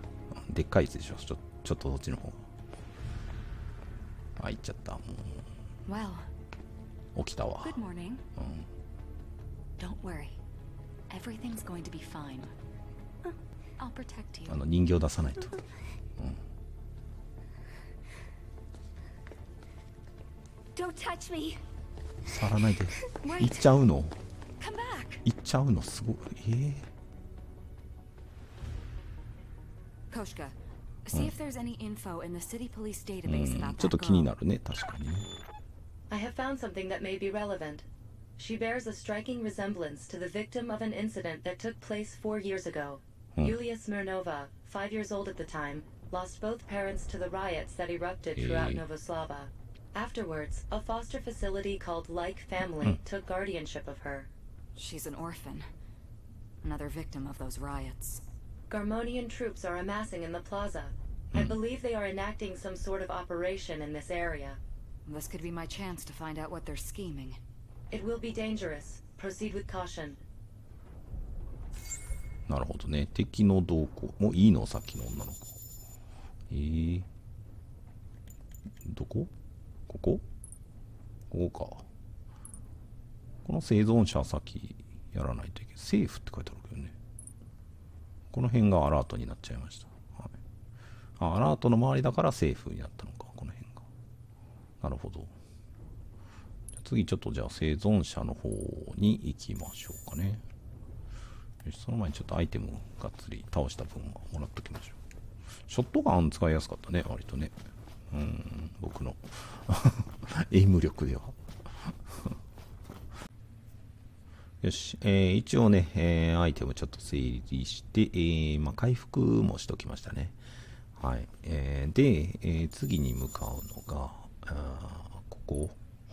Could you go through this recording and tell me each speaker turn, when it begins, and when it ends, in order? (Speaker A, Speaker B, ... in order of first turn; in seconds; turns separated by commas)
Speaker A: 0.3-2.4, Speaker A: 4.4-5.4, Speaker B: 5.8-6.3, Speaker A: 7.1-7.8, Speaker B: 7.6-8.2, Speaker A: 8.3-8.6, Speaker B: 9.8-10.4, Speaker B: 11.1-12.5, Speaker B: 13.2-14.6, Speaker A: 14.5-15.6, Speaker B: 20.7-21.6, Speaker A: 22.3-24.1, Speaker B: 23.1-23.6, Speaker B: 24.6-25.2, Speaker A: 25.2-26.9, Speaker B: 30.1-34.3, Speaker A: 33.2-35.3, Speaker C: 36.1-37.9, Speaker C: 38.4-54.3, Speaker A: 48.4-48.8, Speaker B: 54.7-55.7, Speaker B: 56.6-58.2, Speaker C: 58.7-64.6, Speaker A: 61.3-61.6, Speaker B: 65.0-67.4, Speaker C: 67.9-70.2, Speaker A: 72.5-75.5, Speaker A: 76.5-77.1, Speaker A: 78.8-79.3, Speaker A: 79.9-80.2, Speaker A: 81.3-81.8, Speaker A: 83.4-86.9, Speaker A: 88.3-90.3, Speaker A: 91.2-93.8, Speaker A: 94.8-95.3, Speaker A: 96.7-100.4, Speaker A: 101.6-105.0, Speaker A: 105.7-107.5, Speaker A: 108.1-112.3, Speaker A: 114.6-120.4, Speaker A: 121.0-125.8